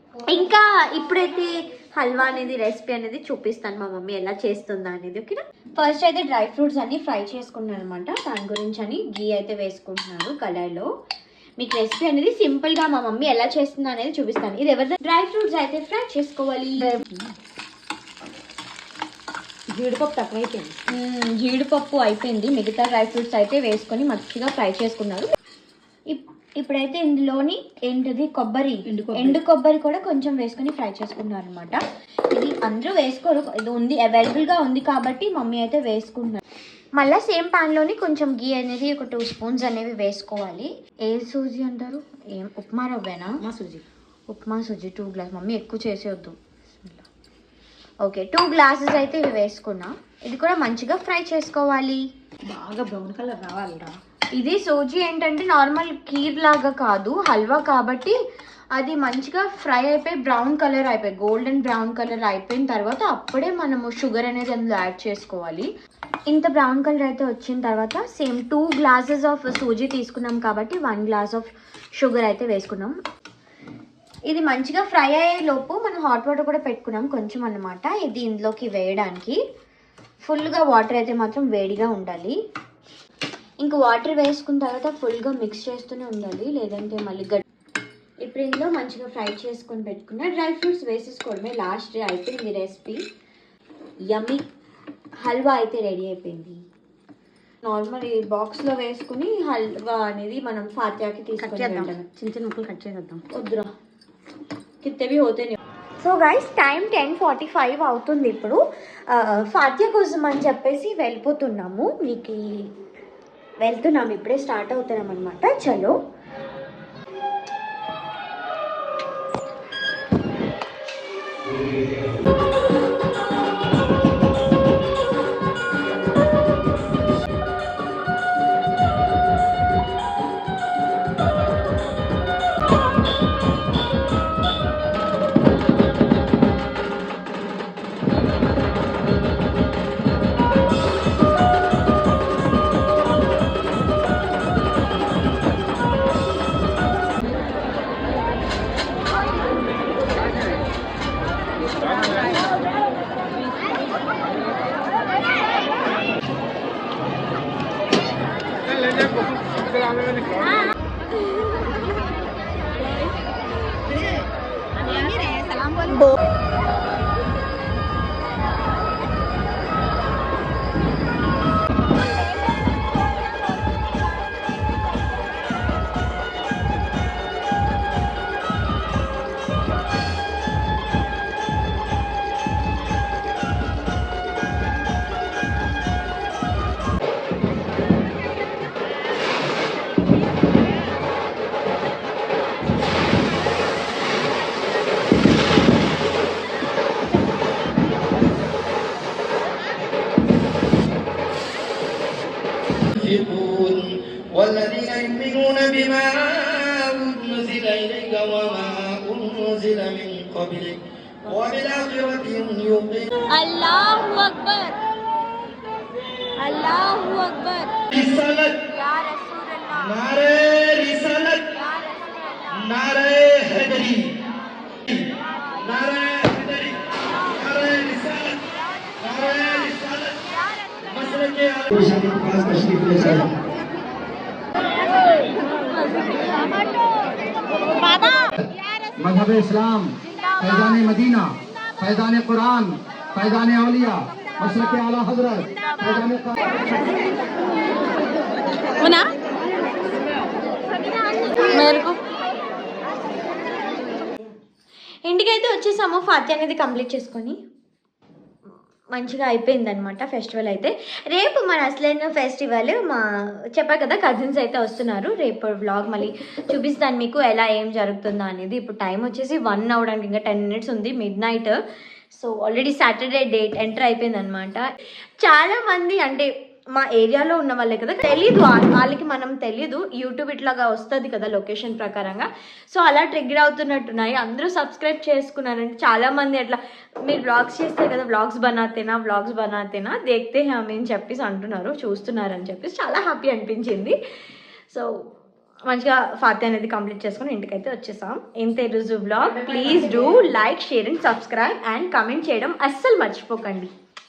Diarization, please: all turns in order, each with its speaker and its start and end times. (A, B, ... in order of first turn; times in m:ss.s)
0:00.3-0:10.9 A
0:11.6-0:17.0 A
0:16.8-0:17.3 B
0:19.7-0:20.8 B
0:20.9-0:25.3 A
0:26.1-0:31.8 A
0:28.8-0:29.4 B
0:32.3-0:36.4 A
0:36.9-0:43.4 A
0:43.4-0:43.8 B
0:44.3-0:46.4 A
0:48.0-0:52.0 A
0:52.5-0:54.0 B
0:54.3-0:58.1 A
0:58.7-1:05.7 A
1:06.3-1:13.0 A
1:14.3-1:19.4 A
1:20.2-1:22.4 A
1:23.6-1:27.4 A
1:28.2-1:33.0 A
1:34.1-1:34.4 A
1:35.2-1:36.6 A
1:37.6-1:42.0 A
1:41.4-1:43.2 B
1:43.3-1:43.7 A
1:44.8-1:52.6 A
1:53.6-1:56.0 A
2:45.1-2:45.7 B
3:23.0-3:33.1 C
3:33.3-3:34.8 A
3:36.4-3:37.7 A
3:37.9-3:38.6 C
3:38.7-3:40.0 A
3:39.8-3:41.4 C
3:41.5-3:42.7 A
3:42.6-3:44.2 C
3:45.6-3:48.4 C
3:49.0-3:53.3 C
3:59.0-4:06.4 D
4:11.4-4:12.0 A
4:15.0-4:17.4 A
4:18.9-4:31.6 A
4:32.1-4:34.7 A
4:35.2-4:54.0 A
4:55.7-5:03.7 A
4:59.3-5:00.2 B